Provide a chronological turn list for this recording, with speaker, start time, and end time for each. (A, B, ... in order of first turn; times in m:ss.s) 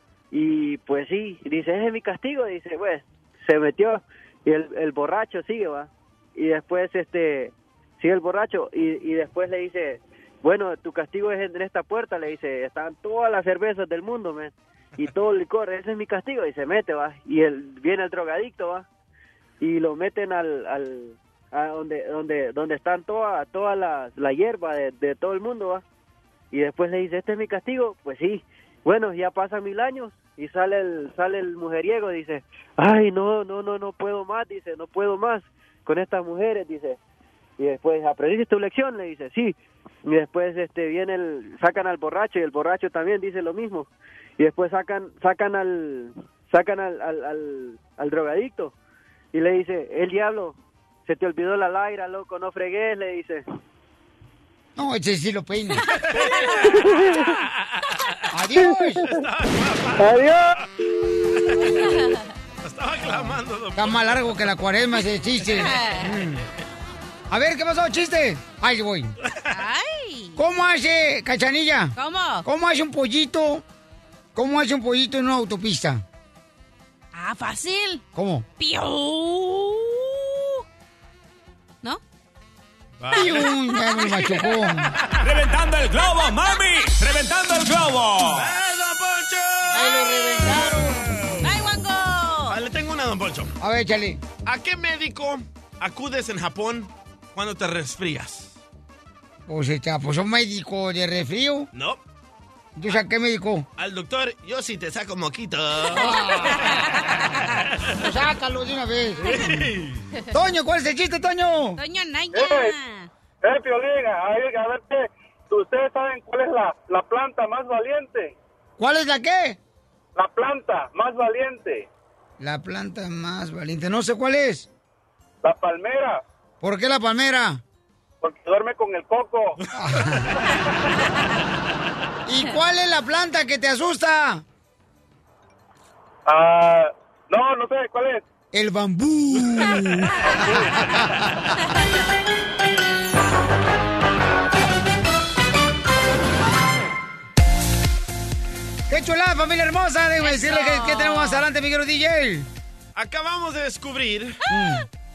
0:00.3-0:18.8 A
0:19.6-0:25.8 A
0:26.5-0:37.0 A
0:37.6-0:43.9 A
0:44.4-0:48.7 A
0:49.3-0:53.4 A
0:54.8-0:55.9 B
0:56.1-0:56.8 C
0:57.6-0:58.2 C
0:58.3-0:59.1 B
0:59.0-1:00.7 C
1:01.4-1:01.9 C
1:01.8-1:02.2 D
1:02.6-1:04.4 C
1:03.7-1:06.4 B
1:05.6-1:06.1 D
1:07.3-1:09.2 B
1:09.3-1:09.5 C
1:09.5-1:10.4 D
1:10.4-1:13.6 B
1:12.0-1:12.4 D
1:14.3-1:16.0 B
1:17.1-1:18.0 D
1:18.1-1:18.4 B
1:18.6-1:20.6 D
1:23.0-1:25.3 C
1:23.1-1:24.9 B
1:25.2-1:28.5 E
1:28.2-1:31.5 C
1:29.7-1:31.5 B
1:29.8-1:30.2 D
1:31.4-1:32.6 D
1:32.5-1:33.5 C
1:33.6-1:34.2 B
1:34.4-1:38.5 C
1:39.5-1:41.7 B
1:41.7-1:42.0 C
1:42.8-1:43.6 B
1:43.8-1:47.9 C
1:45.9-1:47.0 B
1:46.7-1:47.2 D
1:48.0-1:49.4 B
1:49.2-1:50.0 C
1:50.3-1:51.8 B
1:51.8-1:53.1 D
1:52.3-1:52.7 F
1:53.4-1:58.3 F
1:58.8-1:59.6 B
2:00.2-2:01.9 F
2:02.4-2:04.7 B
2:05.4-2:06.2 F
2:06.6-2:07.6 B
2:08.2-2:09.6 F
2:09.8-2:10.3 B
2:12.2-2:14.4 B
2:16.3-2:18.2 F
2:18.5-2:21.5 B
2:28.9-2:32.5 B
2:30.2-2:31.4 D
2:33.0-2:34.4 C
2:34.5-2:34.8 B